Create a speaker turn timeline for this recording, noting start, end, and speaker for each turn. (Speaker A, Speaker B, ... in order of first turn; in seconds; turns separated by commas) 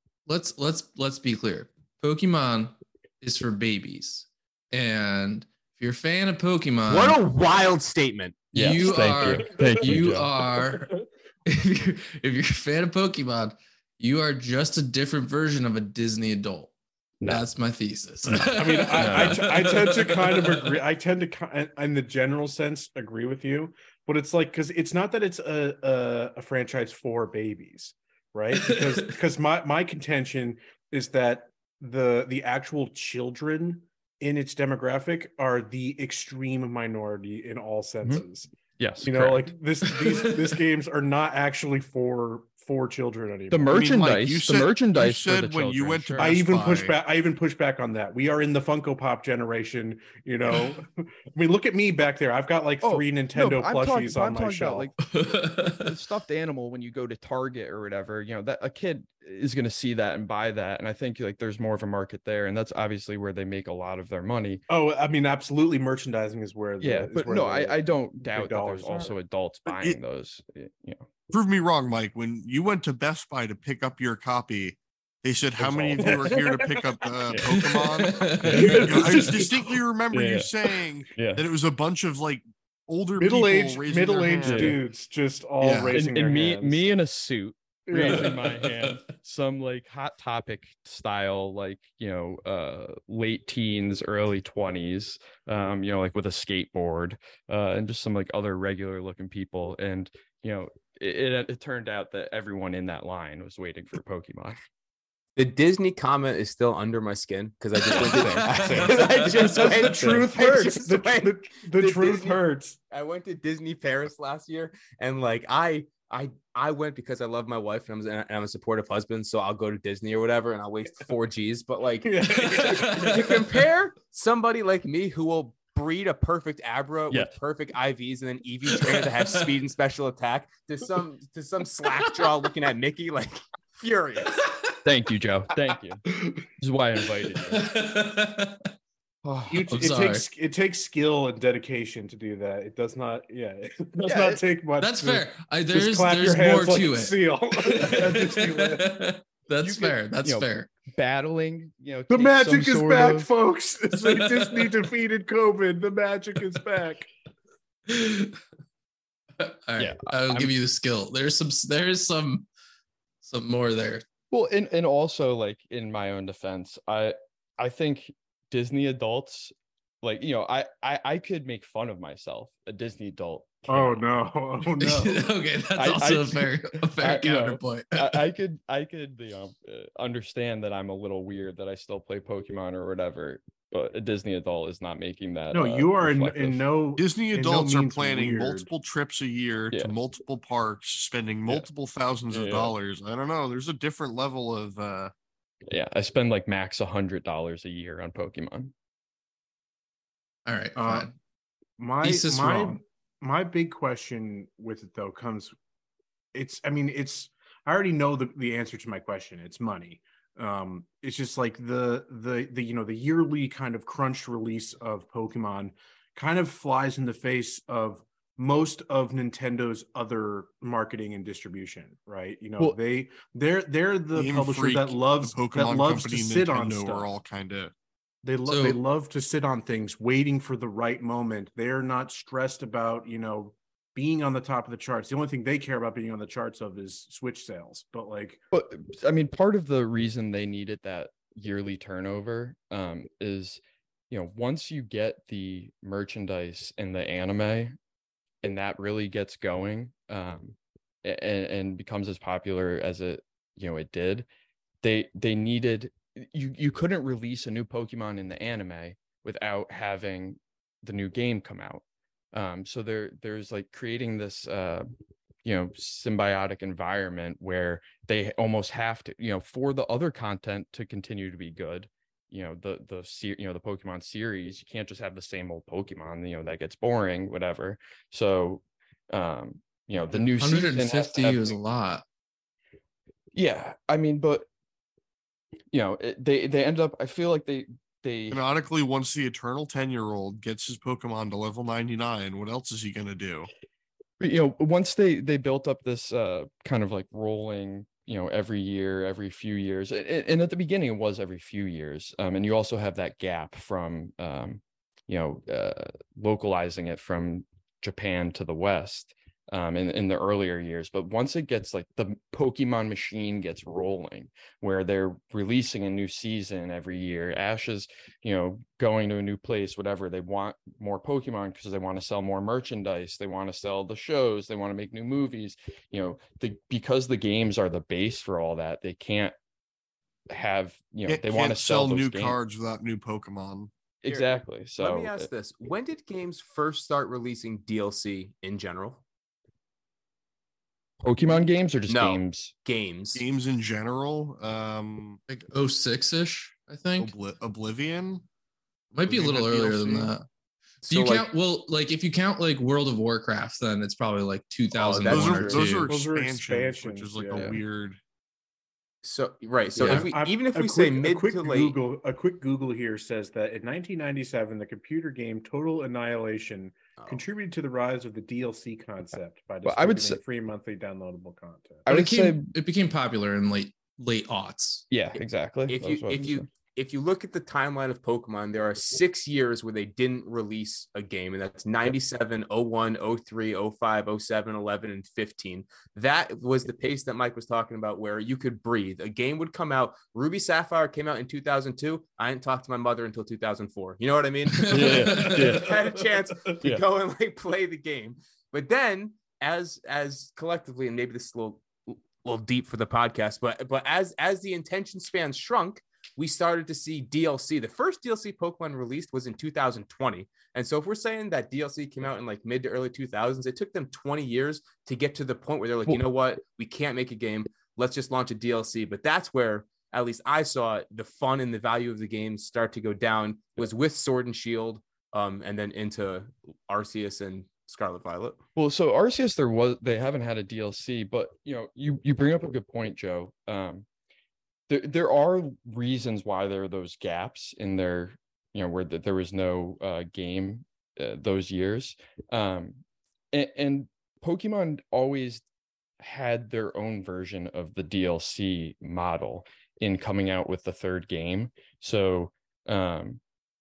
Speaker A: 0.3-7.2, Speaker B: 6.9-8.5, Speaker A: 8.5-16.7, Speaker C: 8.5-10.3, Speaker A: 17.2-20.8, Speaker D: 18.5-38.5, Speaker C: 18.9-19.5, Speaker A: 28.6-29.1, Speaker C: 38.8-39.5, Speaker D: 39.0-43.8, Speaker A: 40.0-40.6, Speaker C: 43.5-46.4, Speaker E: 43.7-47.0, Speaker D: 46.2-54.9, Speaker C: 52.8-64.6, Speaker A: 55.0-56.0, Speaker D: 64.7-69.1, Speaker C: 66.8-71.0, Speaker E: 71.3-84.8, Speaker C: 75.6-76.3, Speaker D: 75.9-77.3, Speaker C: 77.3-77.6, Speaker A: 78.0-79.2, Speaker C: 78.4-79.2, Speaker D: 78.5-79.8, Speaker C: 80.1-80.5, Speaker C: 81.1-81.4, Speaker D: 83.2-86.8, Speaker C: 84.4-84.8, Speaker E: 85.6-86.0, Speaker C: 85.9-104.6, Speaker D: 87.9-88.3, Speaker A: 88.0-89.1, Speaker B: 105.3-112.4, Speaker A: 107.8-110.3, Speaker D: 108.6-112.8, Speaker B: 112.9-134.5, Speaker D: 122.0-123.5, Speaker A: 122.4-123.4, Speaker A: 128.7-129.4, Speaker A: 134.4-134.7, Speaker C: 134.8-136.0, Speaker C: 136.6-137.7, Speaker A: 137.3-138.7, Speaker C: 139.2-139.6, Speaker D: 139.5-149.1, Speaker A: 139.7-140.2, Speaker C: 144.0-144.4, Speaker A: 144.8-150.7, Speaker C: 149.6-153.3, Speaker D: 152.1-157.1, Speaker A: 154.0-154.7, Speaker A: 157.9-158.4, Speaker A: 159.4-162.5, Speaker C: 159.8-160.5, Speaker A: 163.2-164.0, Speaker C: 164.3-174.0, Speaker D: 173.7-175.2, Speaker A: 174.8-178.2, Speaker C: 175.7-186.6, Speaker D: 185.5-188.7, Speaker E: 187.0-195.1, Speaker C: 192.3-192.7, Speaker C: 195.7-198.7, Speaker A: 200.4-201.1, Speaker D: 200.8-201.1, Speaker D: 201.8-205.5, Speaker A: 202.0-202.8, Speaker D: 206.3-227.1, Speaker E: 224.1-227.7, Speaker D: 228.2-238.4, Speaker A: 228.4-228.8, Speaker C: 238.5-247.7, Speaker C: 248.4-254.3, Speaker C: 254.8-261.8, Speaker C: 262.3-264.9, Speaker C: 265.4-281.6, Speaker A: 280.4-282.0, Speaker C: 283.3-284.5, Speaker C: 285.7-288.4, Speaker E: 288.3-293.5, Speaker C: 294.2-329.3, Speaker C: 330.3-332.4, Speaker E: 331.1-333.7, Speaker C: 334.0-335.3, Speaker B: 334.1-339.0, Speaker C: 341.0-342.5, Speaker B: 341.9-343.2, Speaker E: 343.1-345.2, Speaker A: 345.3-347.1, Speaker E: 347.0-348.2, Speaker A: 348.9-350.2, Speaker E: 349.0-350.1, Speaker B: 350.8-351.2, Speaker A: 350.9-355.9, Speaker B: 354.7-355.9, Speaker E: 355.0-358.0, Speaker D: 355.8-357.5, Speaker C: 357.3-357.6, Speaker B: 359.0-361.8, Speaker D: 359.8-371.9, Speaker C: 369.6-370.2, Speaker A: 371.9-374.8, Speaker C: 371.9-372.5, Speaker C: 374.9-376.4, Speaker B: 375.7-428.4, Speaker A: 394.5-395.6, Speaker C: 394.7-395.7, Speaker D: 395.4-396.5, Speaker C: 428.6-433.9, Speaker C: 434.7-445.4, Speaker C: 446.0-453.2